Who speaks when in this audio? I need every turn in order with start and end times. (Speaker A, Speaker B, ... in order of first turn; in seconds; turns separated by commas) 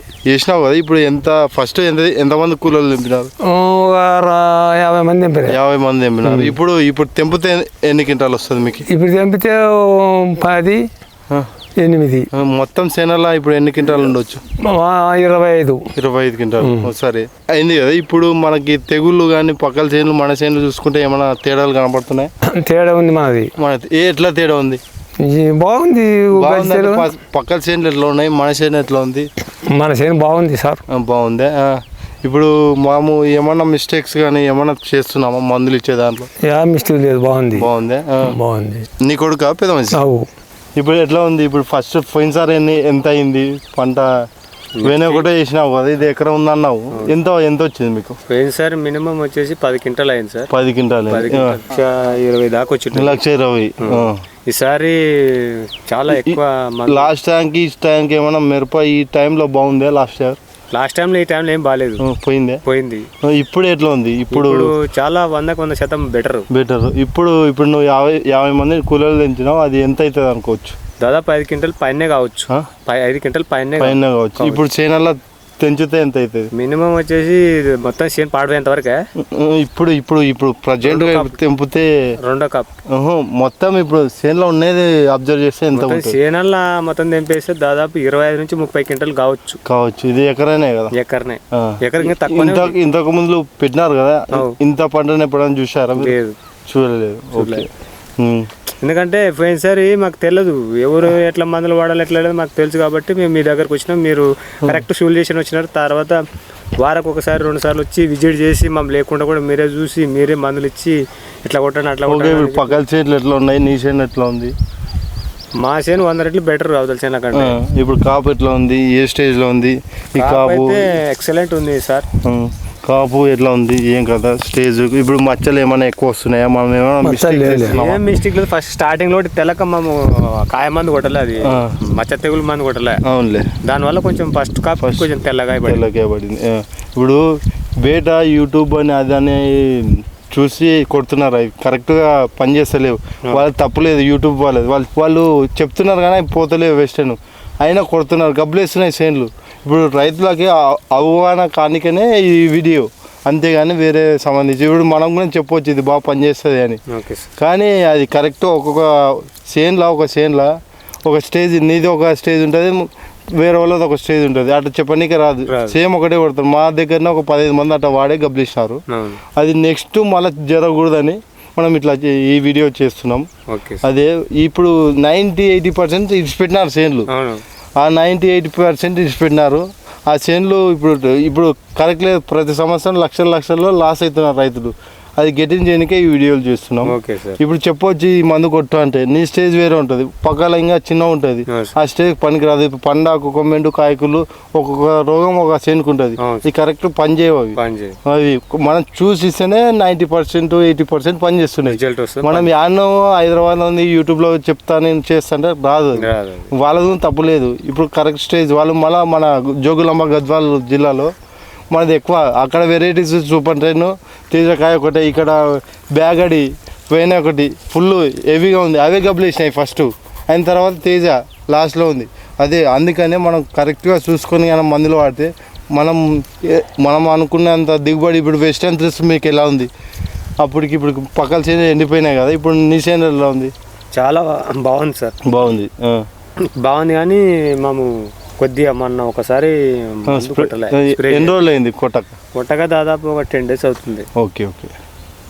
Speaker A: 0.3-3.3, Speaker B: 3.5-5.6, Speaker A: 5.5-8.9, Speaker B: 6.2-6.6, Speaker B: 8.9-10.8, Speaker B: 11.8-12.3, Speaker A: 12.3-14.4, Speaker B: 14.6-15.9, Speaker A: 15.9-22.3, Speaker B: 16.6-16.9, Speaker B: 22.5-23.5, Speaker A: 23.6-24.8, Speaker B: 25.2-27.1, Speaker A: 26.4-29.3, Speaker B: 29.7-30.8, Speaker A: 30.9-36.3, Speaker B: 36.4-37.7, Speaker A: 37.5-38.4, Speaker B: 38.2-38.9, Speaker A: 39.0-40.0, Speaker B: 39.9-40.3, Speaker A: 40.8-44.1, Speaker C: 44.8-45.3, Speaker A: 44.8-48.2, Speaker C: 48.3-50.5, Speaker A: 50.5-51.6, Speaker C: 51.1-53.2, Speaker A: 52.9-54.2, Speaker C: 53.8-57.1, Speaker A: 56.1-60.4, Speaker C: 60.7-62.0, Speaker A: 62.0-62.6, Speaker C: 62.6-63.1, Speaker A: 63.2-64.7, Speaker C: 64.3-66.5, Speaker A: 66.5-70.8, Speaker C: 71.0-74.7, Speaker A: 73.8-76.5, Speaker C: 76.5-79.0, Speaker A: 79.2-81.9, Speaker C: 80.8-81.4, Speaker C: 82.2-82.7, Speaker A: 82.9-86.2, Speaker C: 85.8-89.6, Speaker A: 89.7-90.9, Speaker C: 90.9-92.8, Speaker A: 91.5-96.2, Speaker C: 94.3-94.6, Speaker C: 96.0-96.4, Speaker A: 96.7-97.7, Speaker C: 97.3-97.7, Speaker A: 98.2-98.5, Speaker C: 98.8-106.2, Speaker C: 106.8-112.8, Speaker A: 112.1-114.5, Speaker C: 115.6-117.6, Speaker A: 117.3-120.9, Speaker C: 120.2-122.1, Speaker A: 122.2-128.0, Speaker B: 127.0-127.8, Speaker C: 127.7-133.0, Speaker A: 131.4-131.7, Speaker A: 133.1-133.5, Speaker C: 133.6-135.8, Speaker A: 134.8-135.1, Speaker A: 135.7-156.8, Speaker C: 156.9-157.3, Speaker A: 157.4-160.5, Speaker A: 161.1-168.8, Speaker C: 165.5-165.8, Speaker C: 168.9-169.2, Speaker A: 169.3-173.3, Speaker C: 173.5-173.8, Speaker A: 173.8-177.1, Speaker C: 177.1-177.4, Speaker A: 177.8-211.1, Speaker C: 186.8-187.4, Speaker C: 196.2-196.5, Speaker C: 197.6-198.0, Speaker C: 201.7-202.5, Speaker C: 206.0-206.5, Speaker A: 211.7-229.7, Speaker A: 230.4-233.5, Speaker C: 233.9-235.2, Speaker A: 235.3-236.1, Speaker C: 236.6-241.4, Speaker A: 240.1-242.2, Speaker C: 242.3-244.1, Speaker A: 244.2-244.7